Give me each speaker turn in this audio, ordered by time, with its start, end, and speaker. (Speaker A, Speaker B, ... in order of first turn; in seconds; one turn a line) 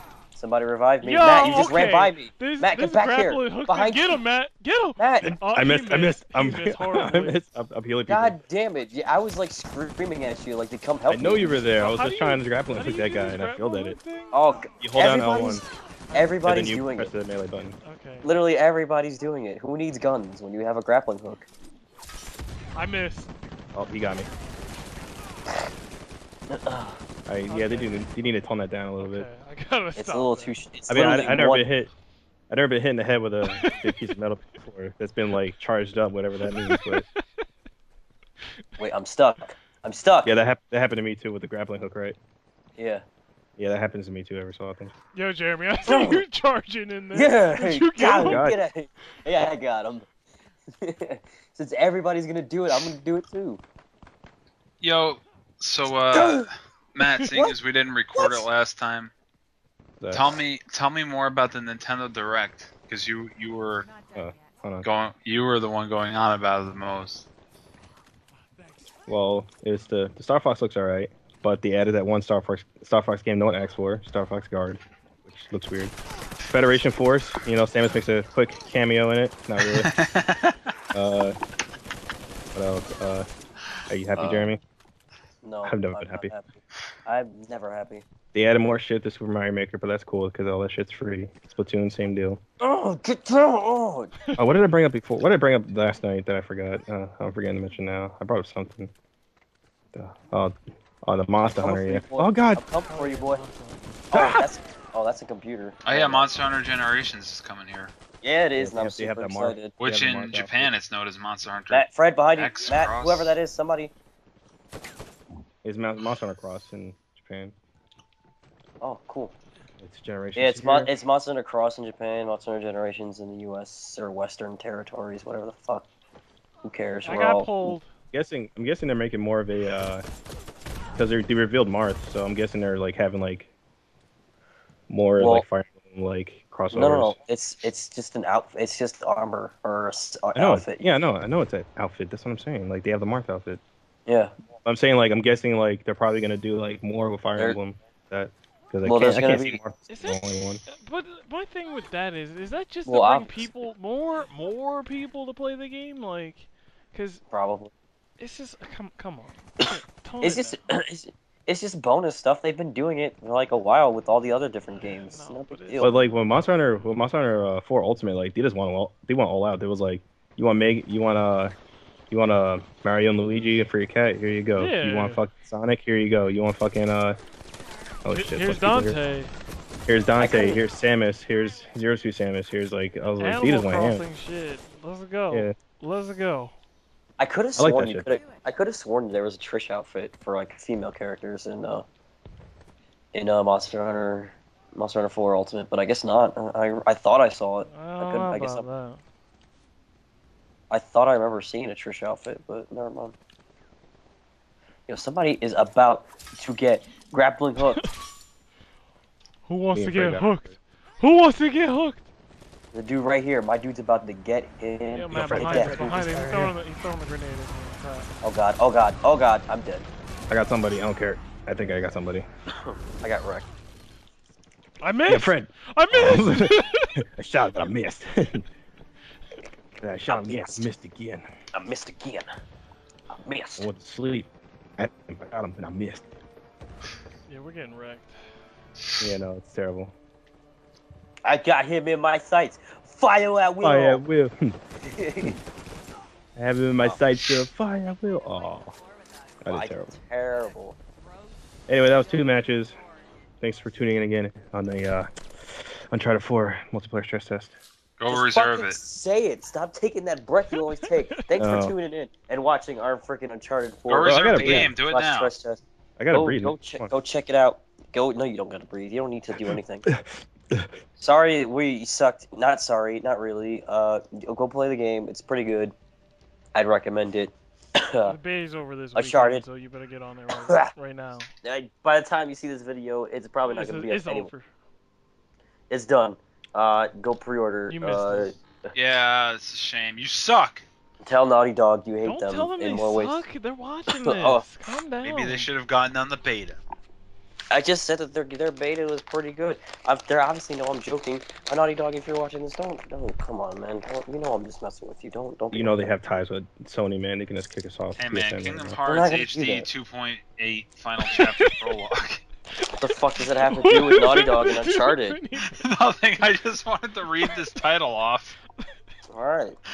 Speaker A: 0.3-4.2
Speaker B: 1.0-7.4
Speaker A: 5.0-5.3
Speaker C: 5.2-8.4
Speaker A: 8.1-11.6
Speaker C: 11.1-14.0
Speaker B: 11.6-14.6
Speaker A: 14.3-17.1
Speaker C: 14.8-15.6
Speaker B: 16.1-16.4
Speaker C: 16.4-17.8
Speaker B: 17.8-18.3
Speaker A: 18.2-21.4
Speaker B: 22.7-23.3
Speaker C: 23.7-24.3
Speaker A: 26.5-27.0
Speaker C: 27.3-29.3
Speaker B: 27.5-28.1
Speaker B: 29.0-30.6
Speaker A: 29.9-31.7
Speaker C: 30.9-31.9
Speaker C: 32.5-37.0
Speaker B: 33.5-33.9
Speaker B: 36.6-37.0
Speaker A: 38.8-40.4
Speaker C: 40.2-42.2
Speaker A: 42.8-43.0
Speaker C: 43.6-44.9
Speaker B: 45.1-48.5
Speaker A: 45.8-46.2
Speaker A: 47.1-50.1
Speaker C: 48.2-48.5
Speaker A: 50.8-53.6
Speaker D: 54.8-59.1
Speaker A: 56.1-56.5
Speaker A: 58.2-58.5
Speaker C: 60.0-60.4
Speaker D: 60.1-63.9
Speaker C: 64.1-64.8
Speaker D: 64.8-67.3
Speaker C: 69.0-75.9
Speaker C: 76.5-79.9
Speaker D: 79.6-80.5
Speaker C: 80.9-81.3
Speaker C: 82.5-83.3
Speaker C: 83.9-84.6
Speaker D: 84.2-84.5
Speaker A: 85.4-88.0
Speaker C: 85.6-86.3
Speaker C: 88.3-92.4
Speaker A: 92.6-94.2
Speaker C: 94.4-98.9
Speaker C: 99.9-102.6
Speaker A: 101.5-103.4
Speaker B: 102.9-104.0
Speaker A: 104.1-106.3
Speaker C: 104.1-104.5
Speaker D: 105.8-107.9
Speaker A: 108.2-109.7
Speaker C: 108.6-110.7
Speaker D: 109.8-113.3
Speaker A: 111.7-113.9
Speaker C: 115.6-117.5
Speaker A: 118.8-119.3
Speaker C: 119.8-120.9
Speaker A: 120.3-125.9
Speaker A: 126.6-127.7
Speaker B: 127.0-127.9
Speaker C: 128.1-130.0
Speaker C: 130.9-133.5
Speaker C: 134.9-137.1
Speaker A: 135.2-135.4
Speaker A: 136.7-140.8
Speaker C: 140.3-143.6
Speaker A: 144.1-144.3
Speaker C: 144.6-150.6
Speaker A: 148.8-149.6
Speaker B: 149.9-157.2
Speaker A: 152.8-153.4
Speaker A: 157.3-157.7
Speaker B: 158.2-160.6
Speaker A: 160.2-165.9
Speaker B: 164.7-166.9
Speaker C: 165.8-171.5
Speaker C: 172.1-177.2
Speaker B: 174.5-175.2
Speaker C: 178.0-179.0
Speaker B: 178.1-179.3
Speaker C: 179.9-184.0
Speaker A: 180.2-180.6
Speaker B: 183.2-186.5
Speaker C: 185.3-185.6
Speaker A: 187.2-191.9
Speaker C: 187.6-188.1
Speaker A: 193.1-198.7
Speaker B: 197.6-199.0
Speaker A: 200.7-203.2
Speaker A: 204.9-207.8
Speaker B: 209.4-212.0
Speaker C: 209.7-210.5
Speaker A: 212.7-215.9
Speaker B: 214.9-218.1
Speaker C: 215.1-216.5
Speaker A: 218.2-219.9
Speaker C: 220.3-222.2
Speaker A: 222.6-223.4
Speaker B: 224.8-226.8
Speaker C: 225.1-228.4
Speaker C: 229.8-231.2
Speaker A: 230.1-230.7
Speaker A: 231.5-232.3
Speaker A: 233.1-233.7
Speaker C: 233.6-236.0
Speaker B: 237.3-238.2
Speaker C: 239.0-239.9
Speaker A: 241.2-244.0
Speaker C: 243.6-244.6
Speaker A: 244.8-245.4
Speaker C: 246.4-248.8
Speaker C: 249.4-249.9
Speaker A: 249.5-250.8
Speaker C: 251.7-252.8
Speaker C: 253.4-257.5
Speaker D: 258.0-258.8
Speaker A: 258.1-269.9
Speaker B: 260.6-261.2
Speaker C: 261.4-261.7
Speaker D: 263.9-265.3
Speaker C: 264.0-264.7
Speaker C: 266.0-266.9
Speaker C: 269.9-270.7
Speaker A: 271.0-275.7
Speaker A: 276.5-278.1
Speaker B: 278.0-281.3
Speaker A: 278.9-279.4
Speaker A: 280.4-280.7
Speaker A: 281.4-284.3
Speaker B: 283.4-284.5
Speaker A: 285.7-288.3
Speaker B: 287.7-288.4
Speaker D: 288.7-290.6
Speaker A: 291.0-293.2
Speaker B: 292.0-295.5
Speaker A: 293.9-294.5
Speaker D: 295.0-296.6
Speaker A: 297.5-305.8
Speaker C: 305.5-308.8
Speaker D: 307.9-312.2
Speaker A: 308.9-309.7
Speaker B: 311.1-311.5
Speaker A: 312.8-315.2
Speaker B: 313.4-315.6
Speaker D: 315.4-318.4
Speaker B: 316.2-316.5
Speaker A: 319.1-319.6